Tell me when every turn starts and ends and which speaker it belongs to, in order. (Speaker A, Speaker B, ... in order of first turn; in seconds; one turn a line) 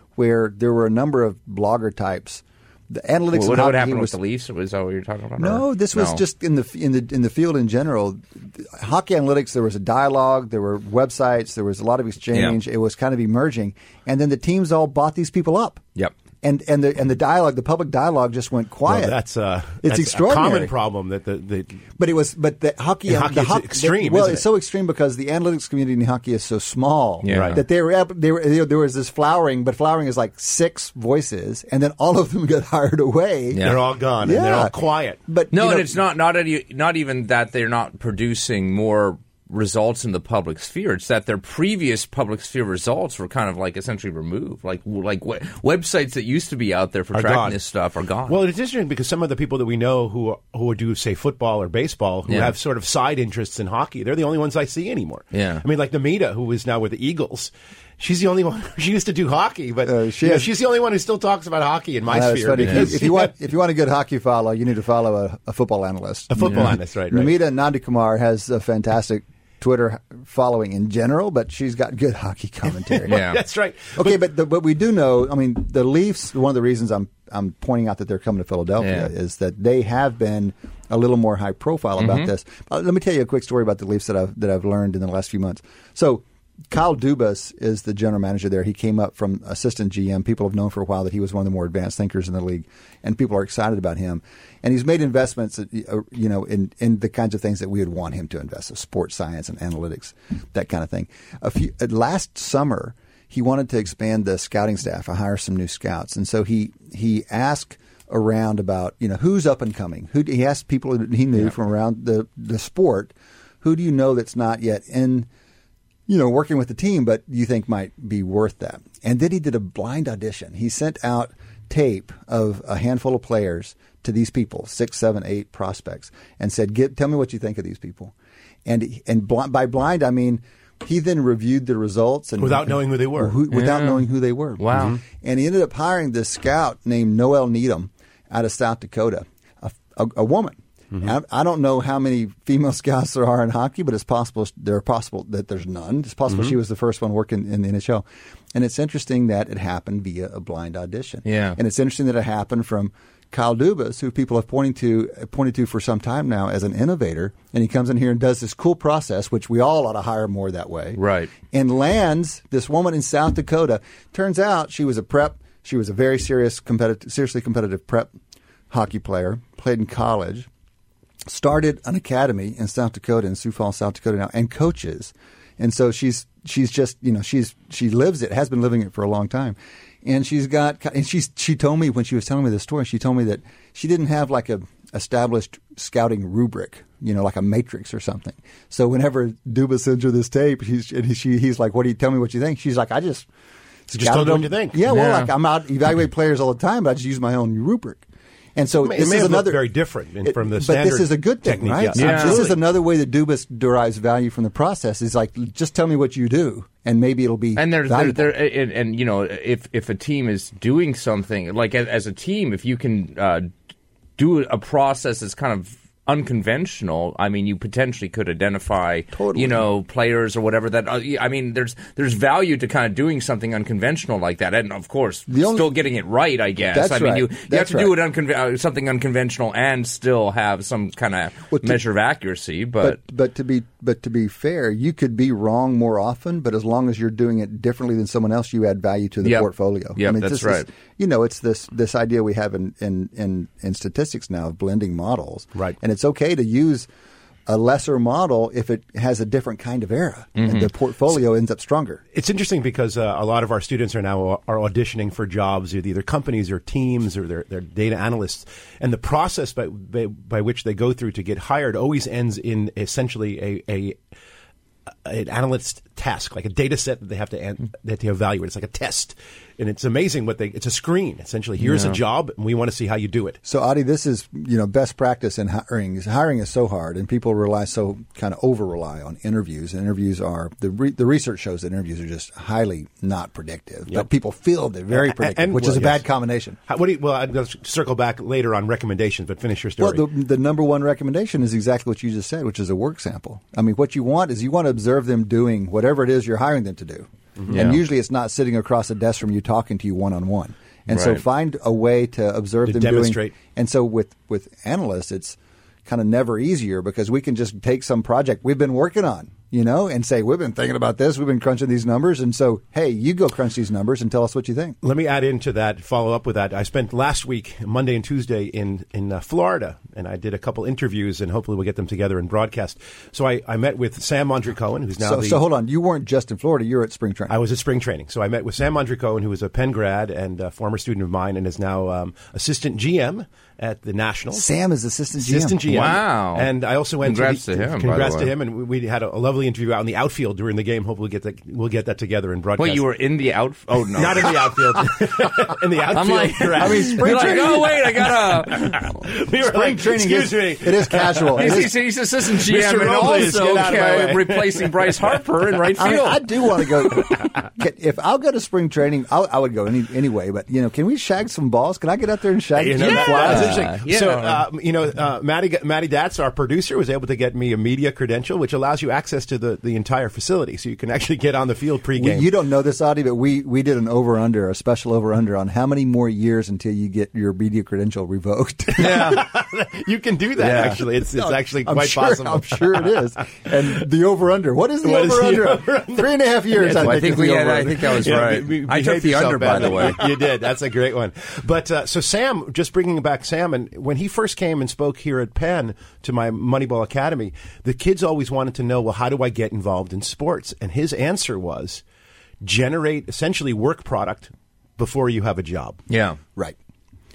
Speaker A: 0.2-4.2
Speaker B: 3.3-6.2
Speaker A: 5.4-15.8
Speaker B: 12.3-12.6
Speaker A: 16.4-19.2
Speaker C: 18.9-21.8
Speaker A: 19.8-20.7
Speaker A: 22.0-33.7
Speaker C: 23.1-24.4
Speaker B: 27.2-27.6
Speaker C: 27.3-27.6
Speaker B: 33.5-33.8
Speaker C: 33.6-35.2
Speaker A: 34.2-34.8
Speaker A: 35.3-35.9
Speaker B: 35.5-48.4
Speaker C: 47.1-47.6
Speaker C: 48.3-63.3
Speaker B: 52.3-52.5
Speaker B: 55.3-55.6
Speaker A: 59.9-60.5
Speaker A: 62.1-73.2
Speaker B: 62.6-62.9
Speaker C: 66.3-67.3
Speaker C: 72.9-74.2
Speaker B: 73.1-73.4
Speaker A: 74.0-115.3
Speaker B: 78.8-79.1
Speaker B: 82.0-82.3
Speaker A: 116.1-128.1
Speaker A: 128.7-168.1
Speaker C: 132.4-133.4
Speaker B: 133.5-134.0
Speaker B: 134.6-135.0
Speaker C: 134.7-135.0
Speaker C: 146.3-146.6
Speaker B: 151.2-151.6
Speaker B: 160.9-161.3
Speaker A: 168.7-170.5
Speaker A: 171.3-193.3
Speaker A: 193.9-198.0
Speaker C: 193.9-194.8
Speaker B: 194.9-195.3
Speaker A: 198.6-199.6
Speaker C: 198.8-202.6
Speaker A: 200.2-208.3
Speaker B: 201.9-202.4
Speaker B: 207.6-213.5
Speaker B: 214.2-233.0
Speaker A: 219.1-219.6
Speaker A: 225.3-225.7
Speaker A: 226.7-227.9
Speaker A: 231.5-231.8
Speaker A: 232.8-246.9
Speaker B: 239.2-240.7
Speaker A: 247.5-252.0
Speaker B: 250.4-250.7
Speaker C: 252.1-264.0
Speaker C: 265.1-273.4
Speaker A: 271.7-272.0
Speaker A: 273.4-286.6
Speaker C: 284.9-286.1
Speaker C: 286.7-290.1
Speaker A: 289.8-314.8
Speaker C: 297.4-297.6
Speaker B: 297.5-297.8
Speaker B: 300.9-301.2
Speaker C: 302.6-303.3
Speaker C: 314.8-325.4
Speaker A: 325.0-327.3
Speaker C: 327.3-334.5
Speaker A: 334.3-335.6
Speaker C: 335.2-342.9
Speaker B: 335.7-336.5
Speaker B: 337.0-338.3
Speaker B: 342.6-344.3
Speaker C: 343.8-351.7
Speaker B: 345.9-348.9
Speaker A: 346.6-347.7
Speaker A: 349.4-351.7
Speaker B: 351.4-356.2
Speaker C: 352.2-355.2
Speaker A: 355.8-363.6
Speaker C: 362.6-372.3
Speaker B: 362.8-364.4
Speaker A: 372.0-379.2
Speaker C: 378.8-383.9
Speaker B: 378.8-379.2
Speaker A: 380.4-388.4
Speaker B: 380.4-380.8
Speaker C: 384.8-401.8
Speaker B: 386.6-390.0
Speaker A: 389.6-390.1
Speaker C: 402.4-405.8
Speaker B: 405.9-406.2